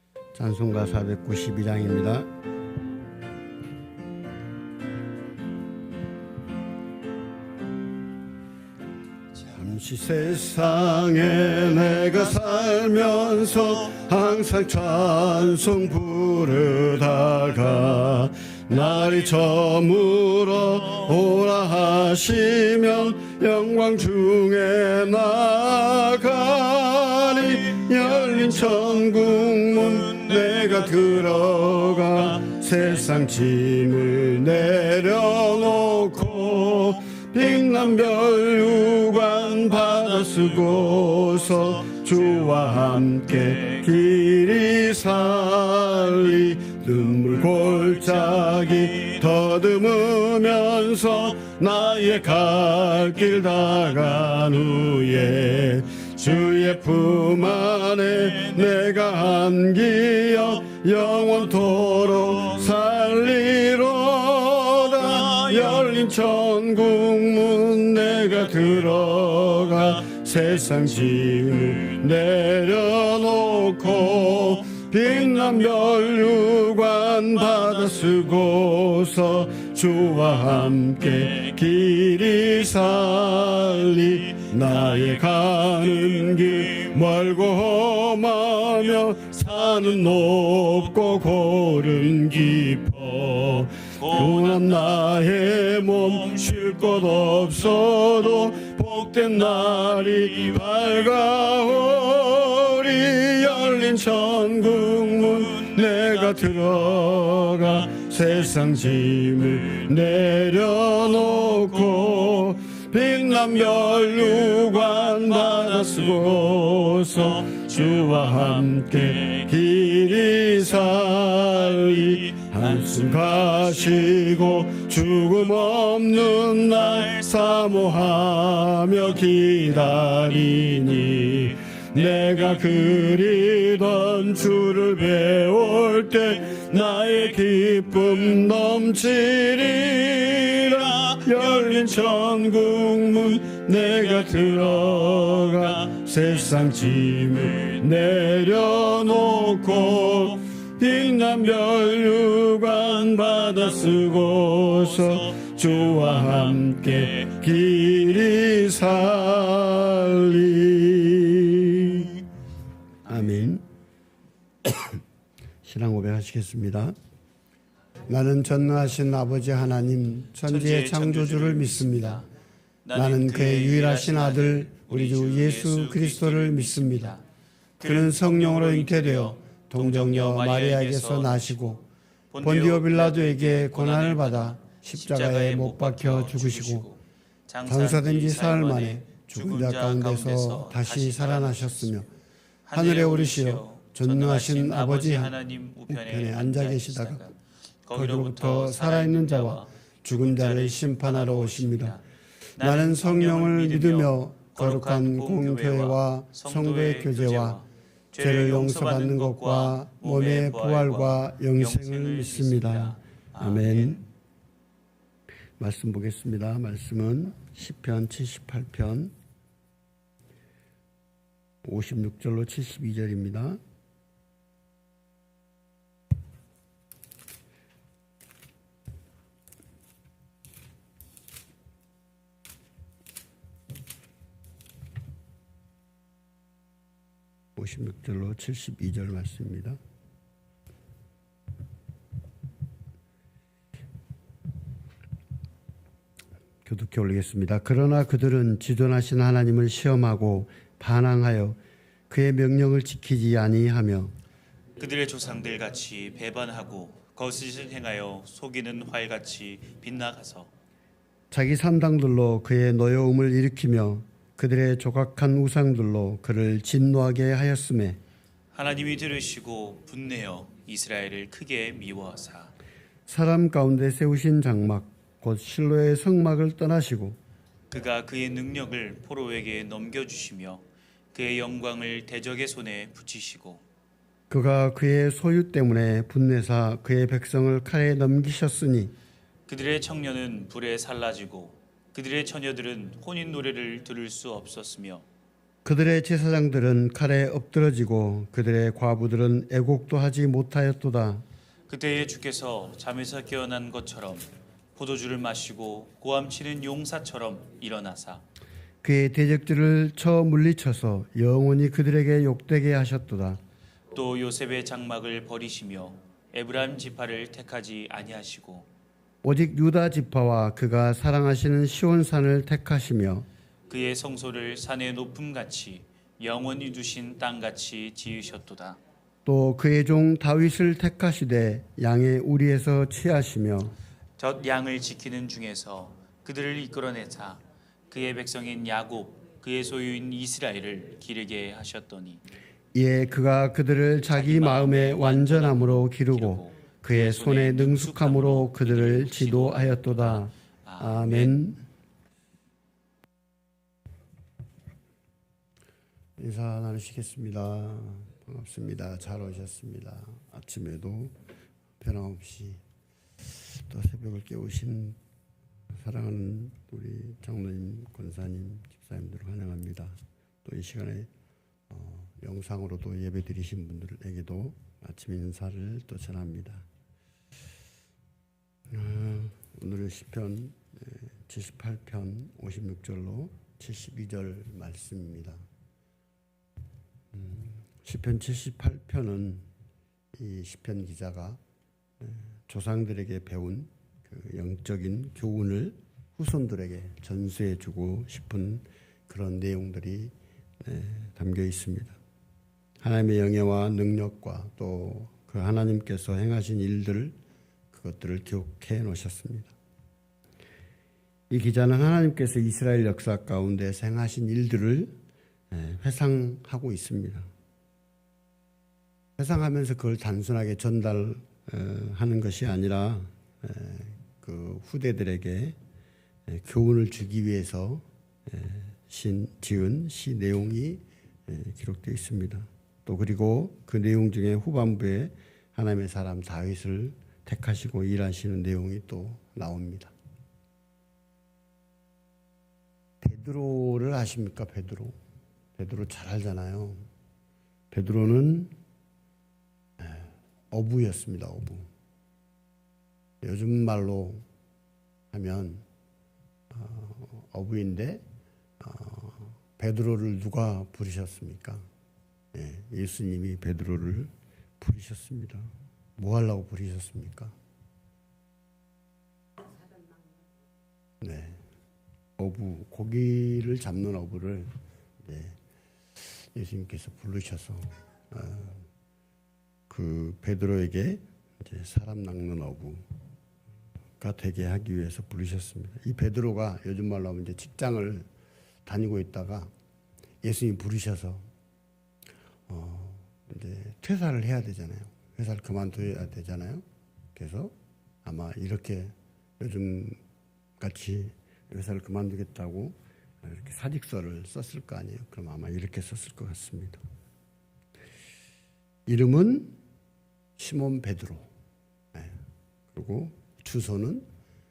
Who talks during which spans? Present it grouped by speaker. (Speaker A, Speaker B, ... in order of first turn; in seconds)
Speaker A: 0.3-2.3, 9.5-162.2, 163.1-163.6, 164.6-165.0, 165.6-166.9, 168.1-172.2, 172.9-177.2, 177.8-181.8, 182.4-186.9, 187.7-192.1, 192.7-195.3, 195.9-197.2, 197.9-202.0, 202.6-207.6, 208.2-214.0, 215.6-219.1, 221.6-223.6, 237.6-239.8, 246.6-251.6, 252.1-254.1, 261.3-268.0, 273.1-277.2, 284.3-288.9, 295.6-301.2, 308.8-313.4, 319.2-323.3, 329.2-333.8, 342.7-351.6, 356.2-361.1, 361.8-362.6, 363.4-365.0, 365.7-371.1, 371.7-376.6, 378.7-385.4, 387.1-389.4, 390.1-391.4, 392.0-402.0, 402.8-407.1, 407.7-409.5, 411.3-414.9, 415.5-417.3, 419.2-425.6, 426.3-439.9, 443.0-444.9, 445.6-446.9, 447.7-448.5, 449.8-451.7, 453.2-454.2, 455.1-455.6, 456.5-458.0, 458.6-461.6, 462.3-467.3, 471.0-471.4, 472.2-475.4, 476.0-478.6, 479.7-482.8, 484.0-488.1, 488.6-489.5, 490.2-491.2, 492.5-496.6, 497.1-497.5, 498.0-500.0, 500.6-506.8, 508.9-509.6, 510.4-511.3, 511.9-512.2, 512.7-514.0
Speaker B: 94.0-94.8, 117.3-118.1, 155.0-156.3, 170.4-172.2, 172.8-177.2, 177.8-181.7, 182.3-191.9, 192.7-202.0, 202.6-214.0, 254.8-260.5, 268.5-272.5, 277.7-283.6, 289.5-295.0, 301.7-308.2, 313.9-318.7, 323.7-328.8, 334.2-342.2, 344.1-351.4